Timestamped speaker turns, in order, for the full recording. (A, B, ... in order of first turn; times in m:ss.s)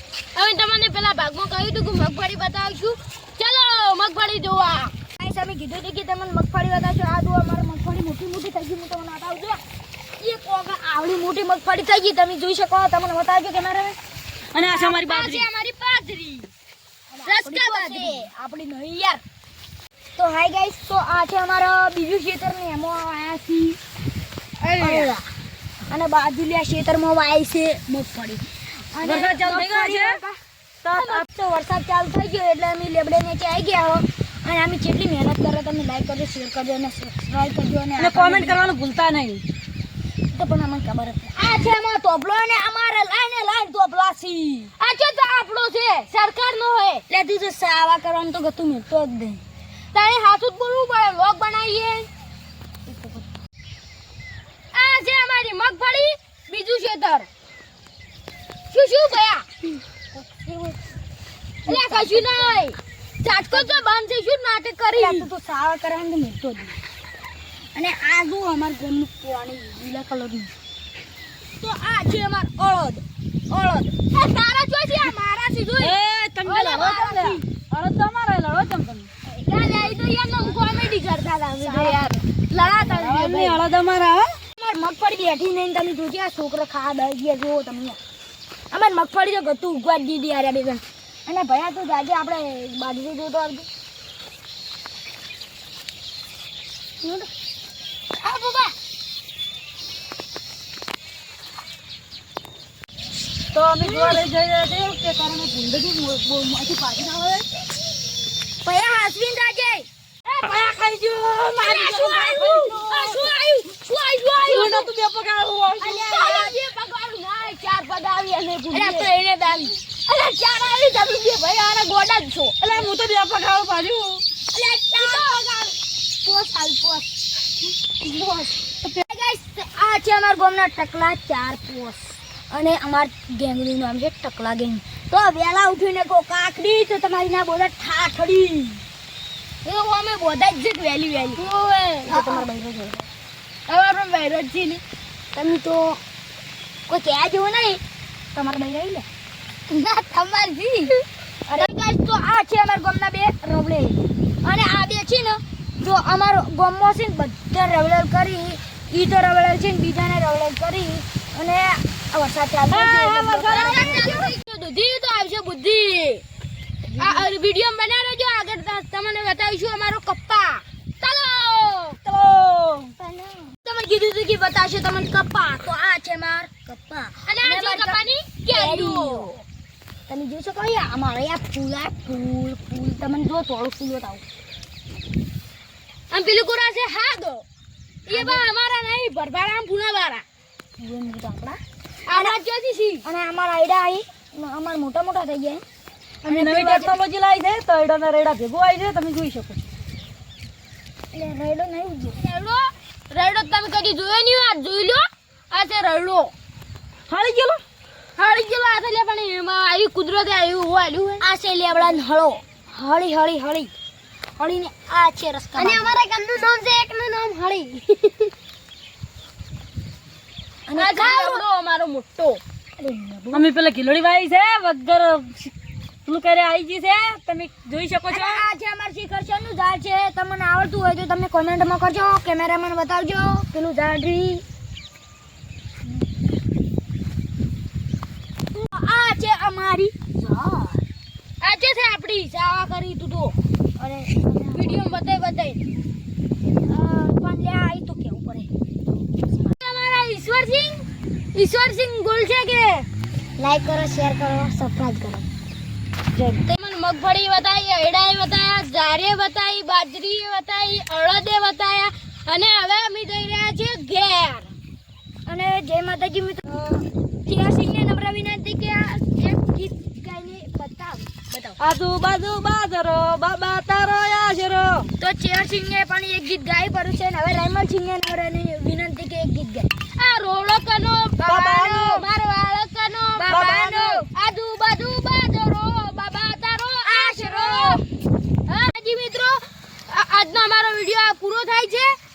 0:00.4-0:04.9 A
0:05.2-0:09.6 B
0:10.2-0:14.0 B
0:14.5-0:15.5 C
0:14.7-0:16.5 A
0:17.1-0:19.2 B
0:17.2-0:18.3 A
0:20.2-0:23.8 B
0:24.6-0:25.1 A
0:24.8-0:25.2 B
0:25.9-0:30.2 B
0:29.0-0:30.2 C
0:29.9-0:30.2 A
0:30.8-0:31.3 C
0:31.0-0:38.6 B
0:38.0-0:39.4 C
0:40.3-0:44.7 B
0:44.8-0:47.0 A
0:47.1-0:49.4 B
0:49.9-0:52.1 A
0:52.9-0:53.2 B
0:54.7-0:57.3 A
0:58.7-0:59.5 A
1:00.1-1:00.8 B
1:01.7-1:02.7 B
1:01.7-1:05.3 A
1:03.5-1:03.8 B
1:05.0-1:06.8 B
1:07.8-1:10.5 B
1:11.6-1:14.0 B
1:14.1-1:17.4 A
1:15.8-1:19.1 C
1:19.4-1:20.0 B
1:19.5-1:23.6 A
1:21.6-1:22.0 B
1:22.6-1:24.4 C
1:24.6-1:28.0 B
1:28.7-1:33.7 B
1:37.0-1:37.3 B
1:38.2-1:38.8 A
1:43.5-1:47.5 C
1:43.8-1:44.2 B
1:48.6-1:49.9 B
1:50.3-1:50.6 A
1:50.4-1:53.2 C
1:51.6-1:54.9 A
1:54.4-1:56.2 C
1:55.8-1:59.2 A
1:55.8-1:56.5 B
1:58.7-2:02.5 B
2:02.6-2:04.2 C
2:04.5-2:07.1 B
2:05.0-2:05.4 A
2:08.9-2:18.8 B
2:19.6-2:22.5 A
2:22.1-2:23.1 B
2:23.7-2:24.8 A
2:25.3-2:26.0 B
2:26.9-2:27.8 B
2:28.3-2:29.1 B
2:29.7-2:30.6 B
2:29.7-2:30.9 A
2:31.5-2:44.3 B
2:42.7-2:46.2 A
2:43.2-2:43.9 C
2:46.9-2:47.3 B
2:47.0-2:52.0 A
2:52.0-2:52.9 C
2:53.0-2:59.4 B
2:57.3-2:59.3 A
3:00.1-3:04.2 B
3:06.1-3:07.4 A
3:08.1-3:10.2 A
3:08.1-3:08.5 B
3:10.8-3:11.6 B
3:12.1-3:13.0 A
3:12.1-3:12.4 B
3:13.0-3:15.6 B
3:16.2-3:17.0 B
3:16.3-3:19.6 C
3:21.1-3:22.2 B
3:22.2-3:26.3 A
3:27.1-3:27.6 C
3:28.2-3:31.3 A
3:31.2-3:33.7 B
3:34.4-3:36.0 B
3:35.6-3:38.3 A
3:40.7-3:41.4 B
3:40.8-3:42.4 A
3:42.8-3:43.5 B
3:43.3-3:45.5 C
3:46.1-3:48.5 C
3:48.1-3:54.4 B
3:58.5-4:00.8 B
4:01.4-4:03.4 A
4:03.8-4:04.9 B
4:04.5-4:05.6 A
4:06.6-4:08.5 B
4:09.0-4:09.6 B
4:09.6-4:12.9 A
4:13.4-4:15.3 B
4:16.2-4:16.5 C
4:16.5-4:24.5 A
4:25.3-4:31.6 B
4:31.6-4:34.9 C
4:35.0-4:39.7 B
4:40.0-4:47.8 A
4:41.3-4:42.0 C
4:41.3-4:42.0 B
4:43.2-4:44.1 B
4:43.4-4:43.9 C
4:46.8-4:47.8 B
4:48.5-4:52.0 A